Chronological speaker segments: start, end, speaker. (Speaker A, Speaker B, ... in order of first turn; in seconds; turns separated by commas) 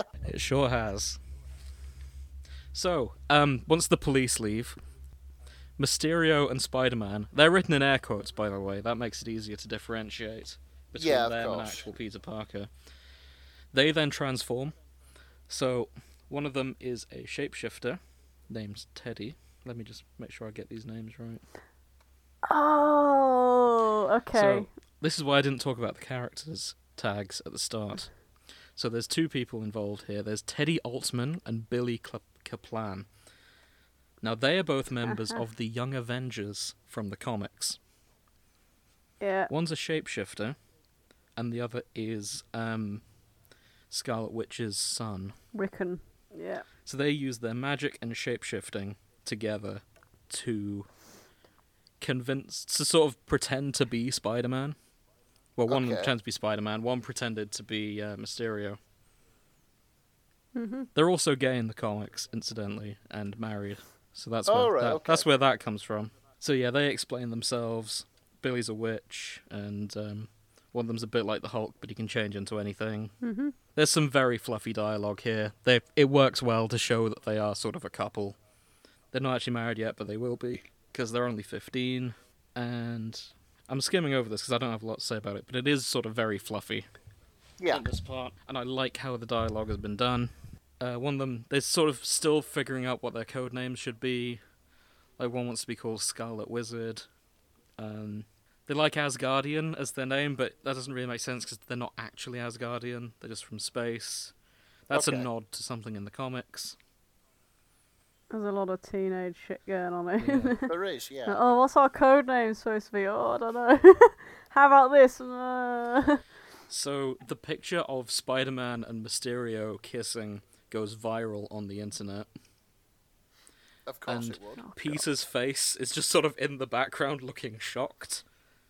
Speaker A: 0.2-1.2, Speaker A: 2.7-4.8, Speaker A: 5.8-12.7, Speaker B: 11.0-11.8, Speaker A: 13.7-14.7, Speaker A: 15.5-21.4, Speaker C: 22.4-24.7, Speaker A: 24.3-28.1, Speaker A: 28.8-33.1, Speaker A: 34.2-37.8, Speaker C: 35.1-35.4, Speaker C: 39.2-39.5, Speaker A: 39.5-40.5, Speaker A: 41.4-43.0, Speaker A: 43.9-45.4, Speaker C: 45.5-46.6, Speaker A: 46.8-50.9, Speaker A: 52.0-54.8, Speaker A: 55.5-58.8, Speaker B: 55.7-56.1, Speaker C: 60.5-60.9, Speaker A: 60.9-73.1, Speaker B: 64.5-65.2, Speaker C: 73.2-73.5, Speaker A: 73.7-78.4, Speaker A: 79.1-86.9, Speaker B: 87.6-87.8, Speaker A: 87.7-94.4, Speaker A: 95.2-97.0, Speaker A: 97.8-104.3, Speaker A: 104.9-106.8, Speaker B: 104.9-105.3, Speaker C: 108.3-110.7, Speaker A: 110.2-110.5, Speaker B: 110.7-111.4, Speaker C: 111.3-116.2, Speaker A: 116.7-122.3, Speaker B: 123.9-124.7, Speaker A: 124.1-128.2